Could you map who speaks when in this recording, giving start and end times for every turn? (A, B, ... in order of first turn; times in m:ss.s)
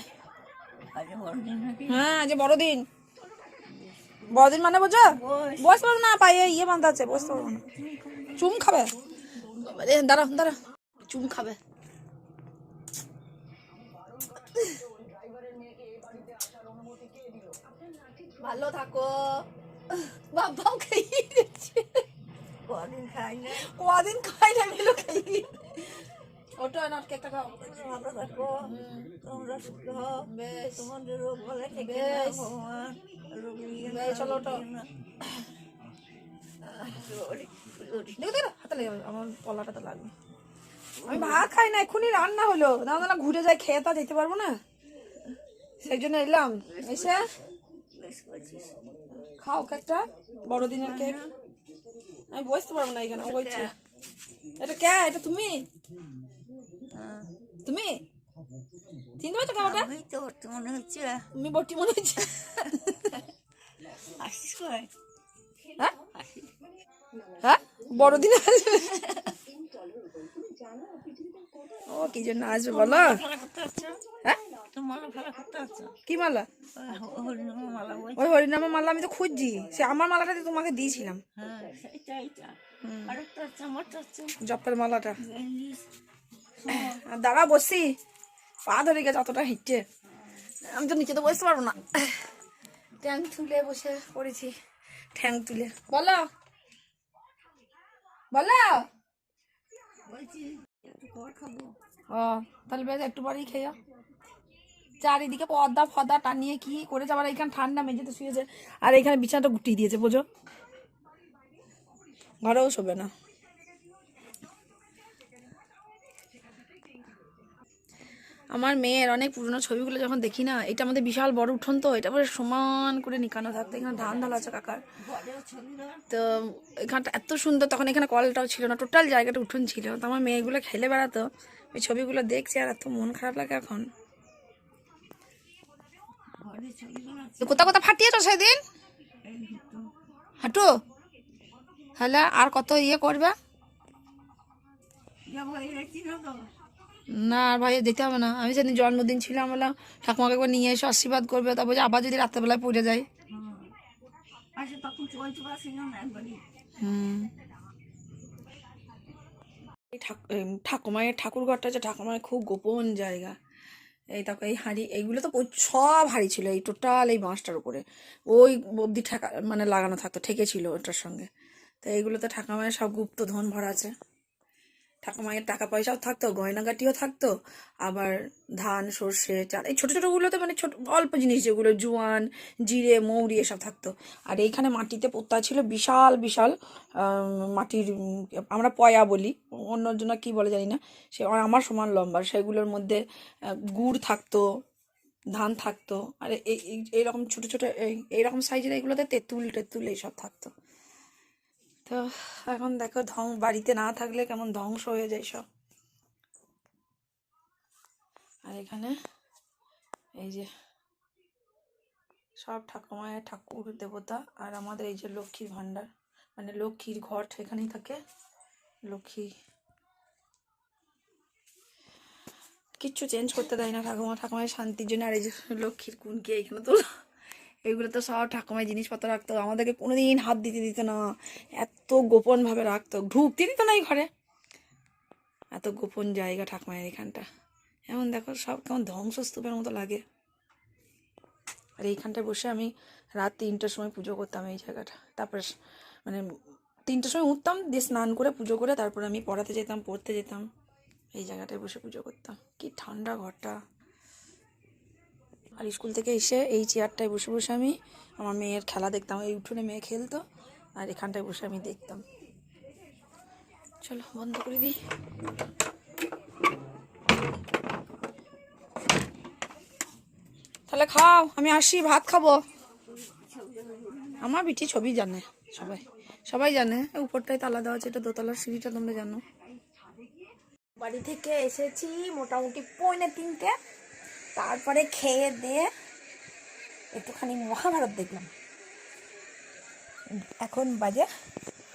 0:00.9-0:02.1 A
0:01.9-0:02.9 B
0:03.5-0:04.4 A
0:04.3-0:07.6 B
0:05.0-0:05.8 A
0:07.1-0:09.5 A
0:08.4-0:08.9 B
0:09.5-0:11.6 B
0:18.4-0:19.4 B
0:20.1-0:22.0 B
0:22.6-0:23.7 A
0:23.5-0:25.8 B
0:26.6-0:27.5 B
0:27.4-0:34.9 A
0:28.6-0:29.1 B
0:30.2-0:30.9 B
0:31.7-0:32.5 B
0:33.8-0:34.6 B
0:36.6-0:38.3 A
0:38.2-0:40.1 B
0:41.0-0:41.5 A
0:41.0-0:44.6 B
0:45.8-0:47.3 B
0:46.7-0:47.2 A
0:47.9-0:49.0 A
0:49.1-0:51.2 B
0:50.8-0:51.4 A
0:52.3-0:53.7 B
0:53.1-0:53.7 A
0:54.6-0:55.7 B
0:56.9-0:57.3 A
0:57.6-0:58.0 B
0:59.2-0:59.9 B
0:59.6-1:01.3 A
1:01.3-1:03.2 B
1:04.0-1:04.9 A
1:06.0-1:06.5 A
1:07.4-1:09.0 B
1:08.9-1:09.3 A
1:11.9-1:13.2 B
1:12.7-1:16.0 A
1:16.1-1:16.5 B
1:16.8-1:18.4 A
1:18.2-1:21.2 B
1:21.4-1:24.4 A
1:22.8-1:23.2 B
1:24.4-1:25.2 B
1:25.2-1:25.8 A
1:26.6-1:27.0 A
1:26.7-1:27.9 B
1:28.7-1:29.8 B
1:30.6-1:32.2 B
1:33.0-1:34.5 B
1:35.2-1:36.2 B
1:38.3-1:38.9 B
1:40.0-1:41.7 A
1:42.1-1:43.8 B
1:45.0-1:50.2 B
1:52.4-1:53.1 B
1:58.5-2:04.8 B
2:04.0-2:04.4 A
2:05.0-2:06.1 A
2:06.1-2:13.9 B
2:16.4-2:17.8 A
2:17.4-2:18.6 B
2:19.2-2:19.9 A
2:20.4-2:20.8 B
2:22.0-2:23.4 B
2:25.3-2:26.5 A
2:27.1-2:33.1 B
2:33.3-2:33.7 A
2:34.5-2:36.5 A
2:36.8-2:37.3 B
2:39.9-2:43.4 B
2:44.1-2:51.3 B
2:51.8-2:53.9 B
2:55.0-2:57.3 B
2:57.8-3:14.4 B
3:15.4-3:20.5 B
3:21.9-3:25.4 B
3:28.4-3:29.0 B
3:30.2-3:30.5 B
3:32.4-3:38.0 B
3:38.9-3:39.3 B
3:42.8-3:46.9 B
3:47.6-3:51.0 B
3:51.6-3:54.1 B
3:55.5-3:57.3 B
3:57.9-4:00.0 B
4:01.8-4:05.5 B
4:06.9-4:10.5 B
4:11.1-4:13.6 B
4:15.5-4:20.2 B
4:20.8-4:22.0 B
4:23.8-4:24.8 B
4:30.7-4:32.4 B
4:32.9-4:34.3 A
4:34.2-4:39.2 B
4:40.8-4:43.5 B
4:44.4-4:45.7 B
4:46.9-4:48.3 B
4:50.1-4:51.1 B